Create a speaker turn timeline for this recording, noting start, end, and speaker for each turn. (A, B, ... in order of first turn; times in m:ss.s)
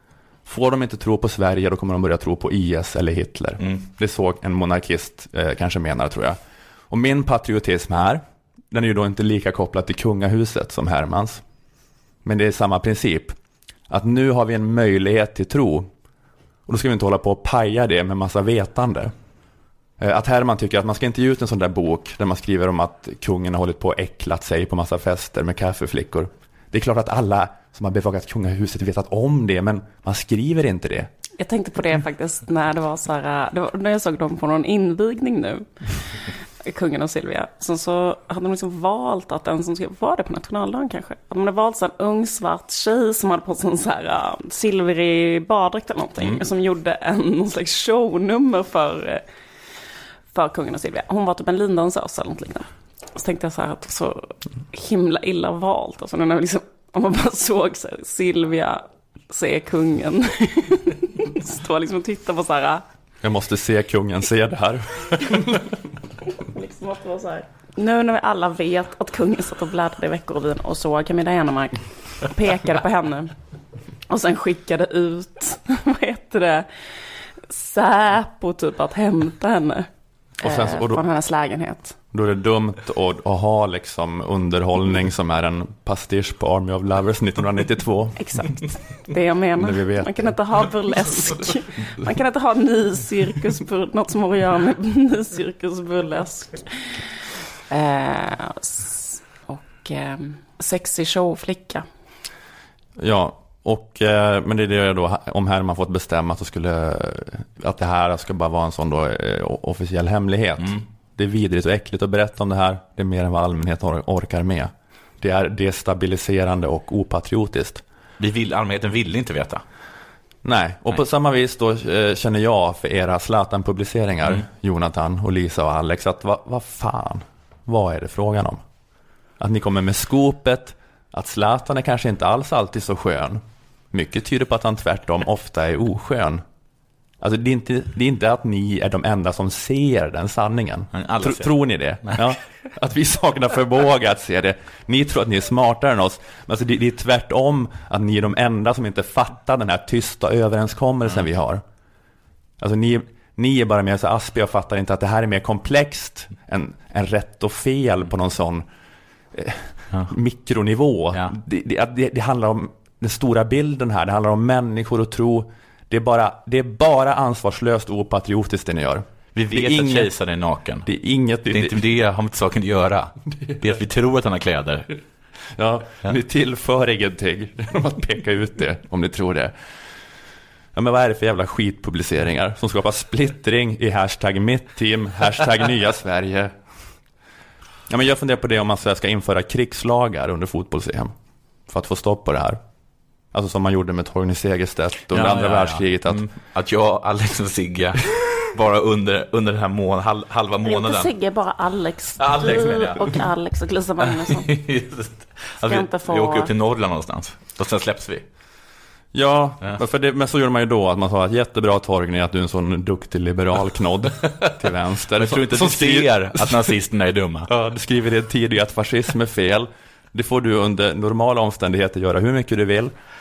0:00.5-0:06.4 A
0:06.9-0:11.4 A
0:12.2-0:13.4 A
0:13.9-0:15.9 A
0:16.7-0:19.1 A
0:20.0-0:31.1 A
0:31.4-0:49.2 B
0:50.3-1:02.8 B
1:03.2-1:05.5 A
1:06.4-1:13.3 B
1:14.1-1:16.7 B
1:17.5-1:19.9 B
1:20.4-1:21.0 A
1:20.4-1:22.0 B
1:22.1-1:28.2 A
1:28.2-1:36.9 B
1:29.6-1:30.3 A
1:37.7-1:41.8 B
1:43.0-1:57.8 A
1:58.2-1:59.6 C
2:00.4-2:08.6 A
2:09.4-2:16.4 A
2:17.2-2:31.6 A
2:20.9-2:22.2 C
2:32.6-2:38.6 A
2:39.3-2:50.1 A
2:49.4-2:50.9 C
2:50.8-2:51.8 A
2:51.5-2:55.0 C
2:55.6-2:59.5 A
3:00.8-3:06.6 A
3:07.9-3:11.1 A
3:11.7-3:12.6 A
3:13.3-3:16.3 A
3:15.1-3:21.1 C
3:20.6-3:24.5 B
3:22.2-3:23.2 C
3:24.2-3:28.2 C
3:25.6-3:26.5 B
3:29.1-3:36.7 A
3:35.2-3:37.5 C
3:37.5-3:42.9 A